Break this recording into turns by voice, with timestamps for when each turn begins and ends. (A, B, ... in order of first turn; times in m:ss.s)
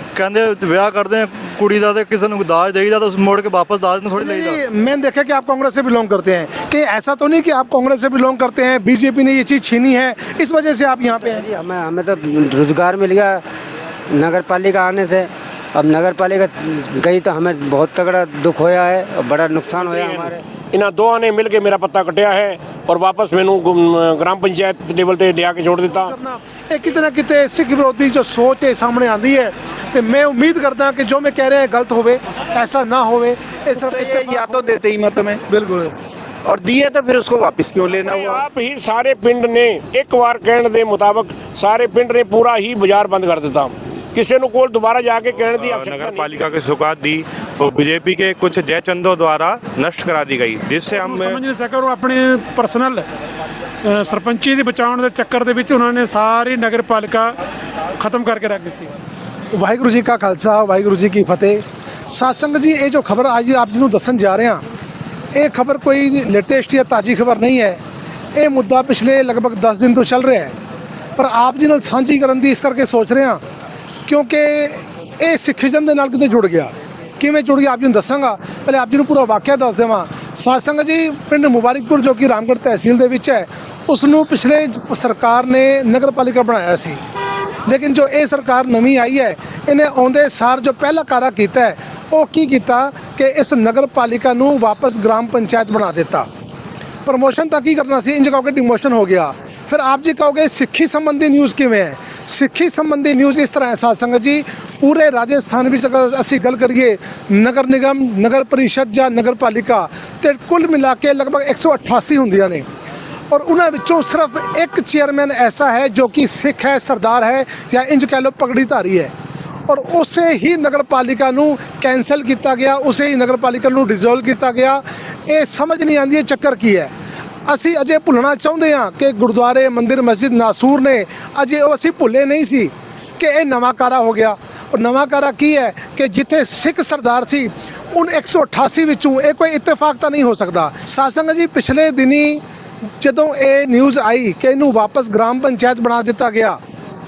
0:00.2-0:04.6 A
0:04.2-0:11.4 B
0:11.1-0:13.4 C
0:14.1-0:20.4 C
0:19.7-0:26.1 D
0:25.9-0:34.6 B
0:33.8-0:35.4 E
0:35.5-0:35.9 B
0:36.5-0:38.4 E
0:38.0-0:46.4 D
0:45.6-0:51.4 F
0:50.9-0:53.1 G
0:53.8-0:57.4 G
0:58.0-0:58.9 G
0:59.5-1:04.6 B
1:05.3-1:07.8 B
1:08.4-1:10.6 B
1:11.2-1:13.4 B
1:14.1-1:27.0 B
1:27.7-1:36.3 B
1:37.0-1:52.6 B
1:53.3-1:59.1 B
1:59.7-2:06.9 B
2:07.5-2:22.4 B
2:23.0-2:26.6 B